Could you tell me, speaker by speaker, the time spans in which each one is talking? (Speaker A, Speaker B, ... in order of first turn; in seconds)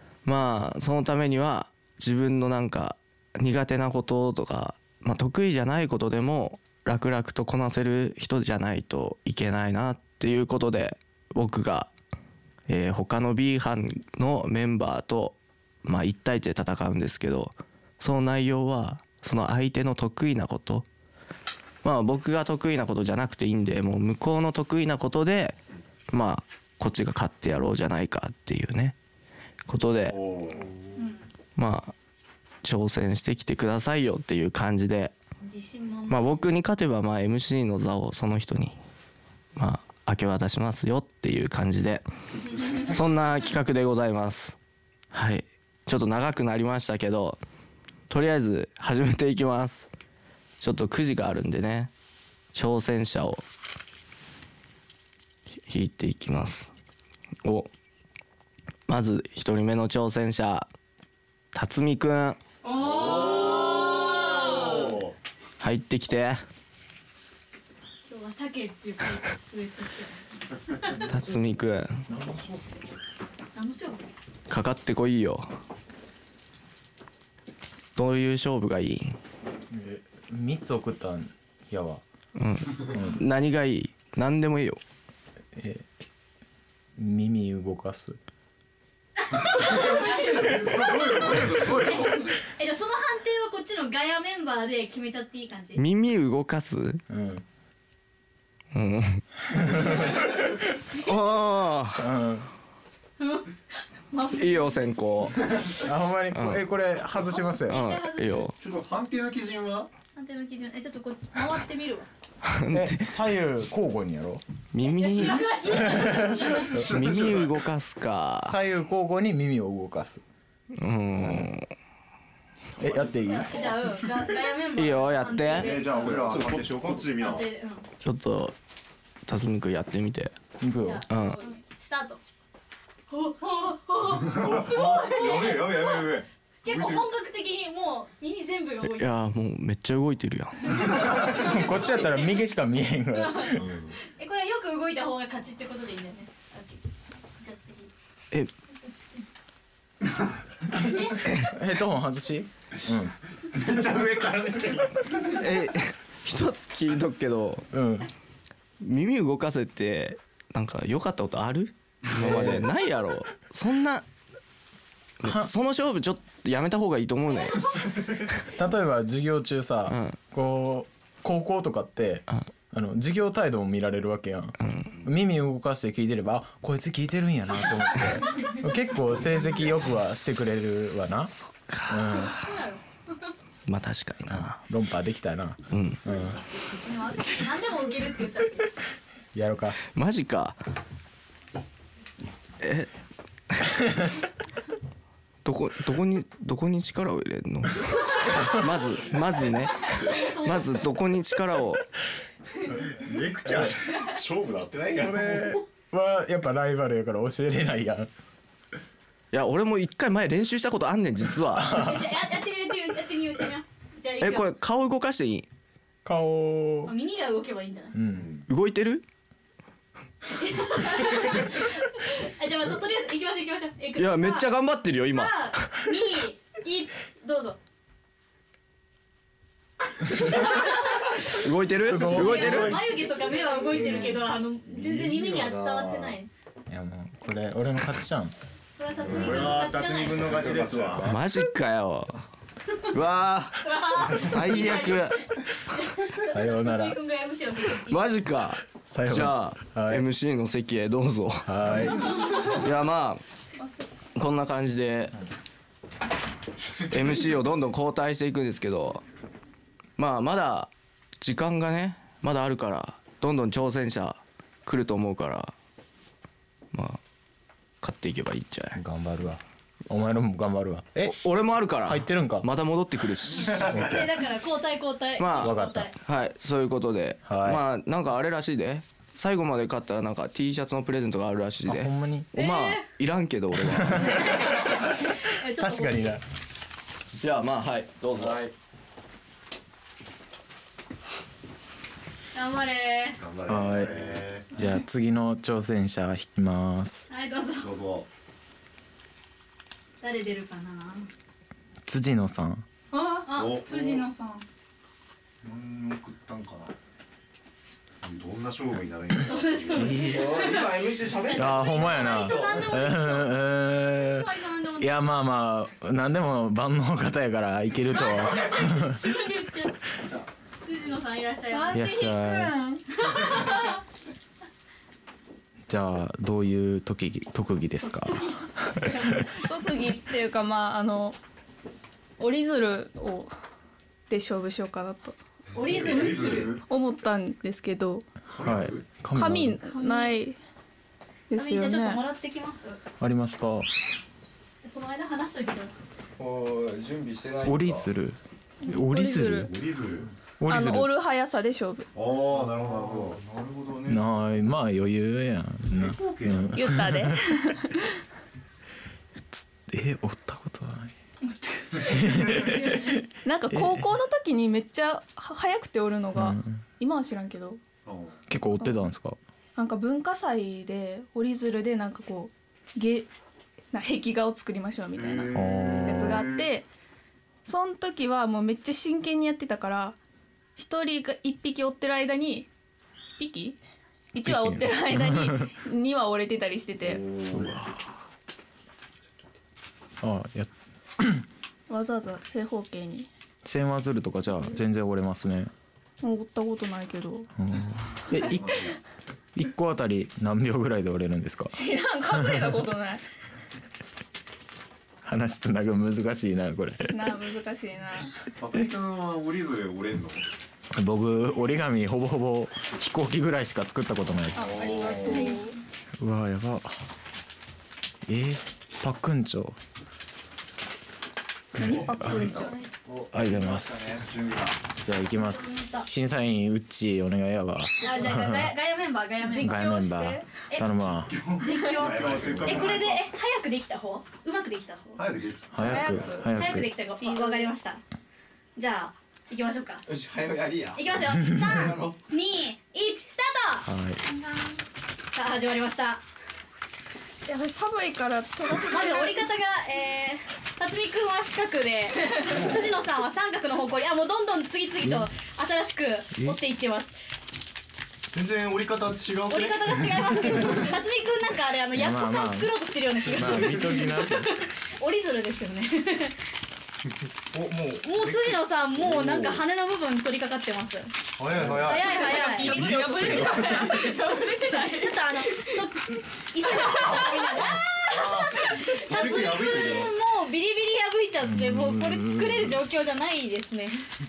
Speaker A: 0.2-11.9, 12.7-20.9, 21.8-25.6, 26.1-28.9, 29.7-30.2, 31.6-31.9, 32.6-35.1, 36.1-38.8, 39.6-42.1, 42.6-44.6, 45.1-47.4, 48.1-49.9, 50.6-51.9, 52.5-53.4, 55.7-56.7, 57.4-57.7, 58.9-60.7, 61.5-62.4, 65.6-66.4, 71.0-72.0, 74.5-75.5, 78.0-79.2, 82.4-84.8, 95.8-97.0, 98.7-99.2, 100.9-102.1, 104.4-105.4, 106.3-106.7, 107.7-108.5, 112.4-113.1, 114.7-118.6, 120.8-121.7, 124.8-125.9, 128.0-128.6, 129.3-130.3, 131.1-131.4, 138.8-140.9, 155.3-157.7, 158.8-164.1, 165.2-167.8, 169.9-170.2, 174.6-174.9, 181.4-182.3, 183.7-184.6, 185.7-186.0, 189.9-190.6, 192.6-192.9, 195.4-201.8, 209.3-211.9, 214.2-215.5, 218.5-219.0, 224.0-225.7, 231.3-232.8, 241.0-242.2, 242.9-245.2, 247.9-251.5, 252.4-253.2, 254.1-255.1, 256.9-259.0, 260.0-265.5, 266.7-267.0, 267.8-268.8, 271.0-273.7, 275.2-284.3, 287.2-288.5, 310.1-312.6, 346.2-347.9, 439.9-440.8, 441.4-442.0
Speaker B: 30.1-30.8, 62.8-65.1, 89.6-92.3, 108.6-109.9, 116.8-117.5, 122.8-123.1, 125.5-127.5, 134.2-137.1, 143.6-144.0, 153.5-155.3, 202.9-205.6, 218.1-218.4, 233.7-234.2, 234.7-236.2, 239.0-241.2, 293.2-294.6, 297.6-298.1, 303.3-304.1, 305.4-306.7, 308.0-310.1, 335.6-336.6, 338.3-338.9, 349.5-350.1, 351.9-354.0, 355.7-356.7, 367.9-368.2, 374.9-376.5, 386.8-387.6, 398.2-398.8, 408.4-410.3, 414.4-415.3, 421.6-424.6, 431.0-433.0, 435.0-436.1, 452.2-452.7, 458.1-460.6, 463.2-463.6, 467.3-469.4, 471.2-473.2, 476.7-480.0
Speaker C: 35.4-36.5, 62.6-65.0, 68.0-71.0, 73.5-74.1, 89.2-95.8, 103.2-105.0, 107.3-108.5, 110.2-112.1, 114.8-116.8, 123.2-126.5, 127.0-127.9, 130.8-132.2, 133.1-139.1, 140.6-142.4, 143.1-146.8, 147.4-147.9, 150.8-151.2, 182.2-182.8, 186.8-188.7, 199.8-200.9, 211.7-214.5, 216.8-217.9, 220.4-224.5, 225.1-227.6, 230.0-231.4, 231.9-236.3, 238.8-240.4, 243.6-248.2, 273.6-275.9, 282.4-282.9, 284.0-286.2, 292.3-293.2, 297.1-297.8, 300.0-301.1, 303.2-303.7, 309.2-315.0, 317.9-319.8, 320.6-322.3, 322.9-323.8, 327.8-329.4, 335.5-336.6, 339.6-340.2, 341.3-342.8, 344.6-345.7, 415.1-415.4, 425.1-425.9, 427.8-429.7, 431.4-435.1, 436.3-437.8, 438.6-439.9, 440.7-443.7, 445.1-446.0, 448.7-456.9, 459.3-466.2, 467.8-470.9, 471.6-483.9
Speaker D: 72.1-72.6, 79.7-82.0, 82.8-83.2, 85.5-85.9, 87.0-88.2, 97.1-97.4, 99.5-100.5, 102.0-102.5, 105.8-107.8, 112.7-114.4, 115.8-117.1, 118.4-120.2, 121.2-121.5, 122.8-123.8, 126.1-126.8, 130.6-131.0, 141.0-143.7, 151.4-153.1, 157.7-158.1, 162.1-162.7, 165.2-165.5, 168.6-181.3, 181.9-182.4, 184.3-186.4, 189.3-189.8, 203.4-203.8, 204.9-208.1, 211.5-212.0, 216.1-216.9, 217.9-218.3, 231.8-233.1, 236.7-238.3, 246.2-247.0, 248.9-250.1, 251.4-252.1, 268.8-271.2, 271.8-272.5, 273.6-274.1, 275.4-275.9, 277.2-277.6, 281.6-282.3, 283.6-286.2, 293.5-297.1, 301.9-302.6, 309.8-310.4, 311.3-319.1, 321.7-322.6, 325.7-329.1, 338.4-339.6, 343.0-343.7, 347.4-349.5, 350.4-350.9, 353.9-357.1, 359.3-360.9, 361.8-363.9, 366.1-366.6, 368.3-369.2, 375.3-376.3, 384.2-385.5, 387.3-387.8, 390.0-391.2, 393.4-395.5, 397.4-398.7, 399.4-401.5, 402.1-402.5, 405.0-407.1, 410.7-414.8, 416.0-416.7, 418.1-419.6, 421.6-422.1, 423.1-424.1, 424.7-428.6, 429.4-431.2, 432.1-432.6, 435.5-436.7, 443.6-444.0, 454.8-455.1, 456.1-456.4, 461.7-464.3, 471.4-471.7, 481.2-482.6
Speaker E: 302.9-304.4, 437.1-437.4, 472.0-474.8
Speaker F: 321.5-322.8, 329.4-331.2, 332.2-333.3, 334.1-335.2, 336.1-338.1, 339.1-340.4, 341.3-342.0, 348.6-349.5, 350.5-351.9, 356.5-357.8, 363.2-367.6, 369.6-373.1, 373.7-376.7, 377.4-380.0, 380.6-382.5, 383.2-383.6, 384.1-387.1, 391.7-393.1, 396.0-397.3, 401.5-403.0, 406.9-408.1, 414.4-415.6, 421.6-422.6, 429.2-430.2, 431.5-432.0, 435.6-436.2, 447.2-449.2, 471.9-474.1